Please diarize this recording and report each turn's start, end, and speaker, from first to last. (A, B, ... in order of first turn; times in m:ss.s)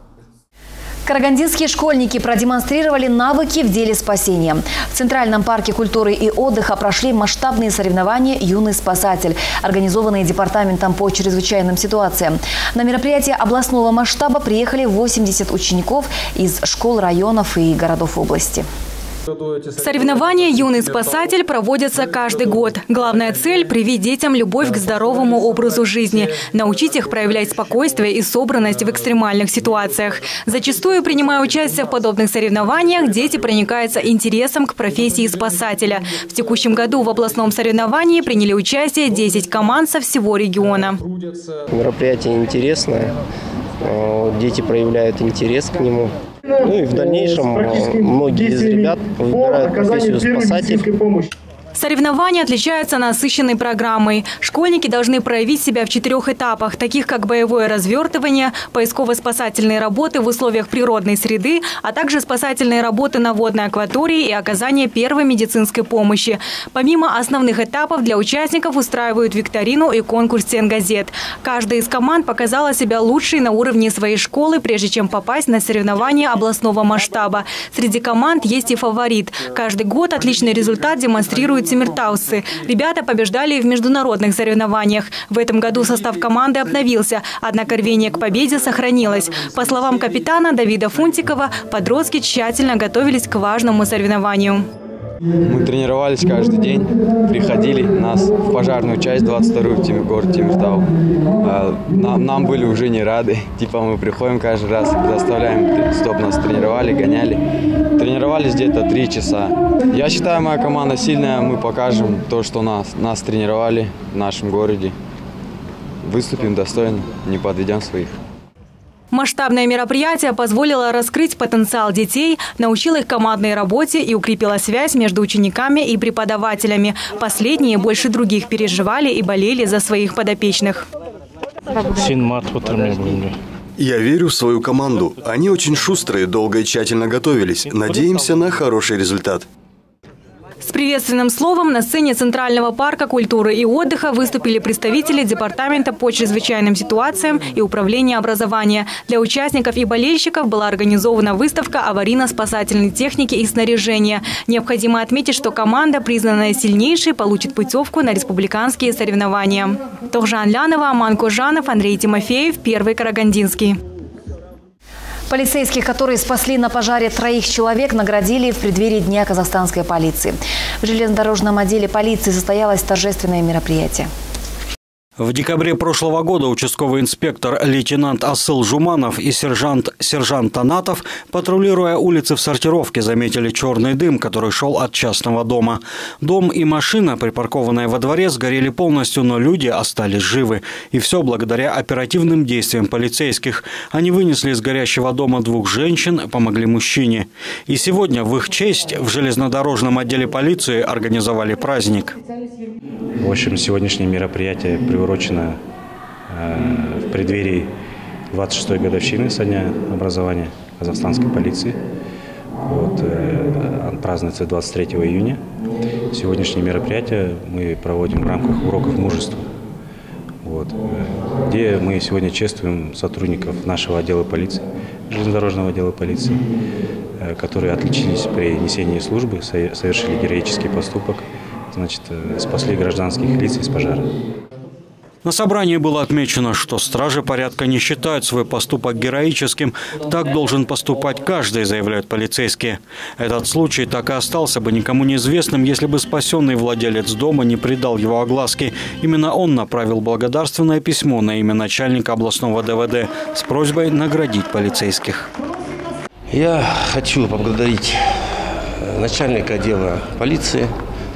0:01.0-0:18.6 A
0:19.7-0:41.0 B
0:41.7-0:43.1 C
0:43.8-0:51.0 C
0:51.7-1:34.7 B
1:35.4-1:40.9 D
1:41.4-1:47.4 D
1:48.0-1:55.0 D
1:56.0-1:58.2 D
1:59.1-2:10.9 B
2:13.8-2:19.5 E
2:20.6-2:43.8 B
2:45.3-2:54.1 A
2:55.2-3:22.2 F
3:23.2-3:25.6 G
3:26.3-3:27.7 G
3:28.3-3:31.8 G
3:32.6-3:35.4 G
3:36.1-3:39.5 G
3:40.4-3:46.4 G
3:47.2-3:54.1 G
3:55.2-4:15.3 F
4:16.3-4:18.0 H
4:18.8-4:20.7 H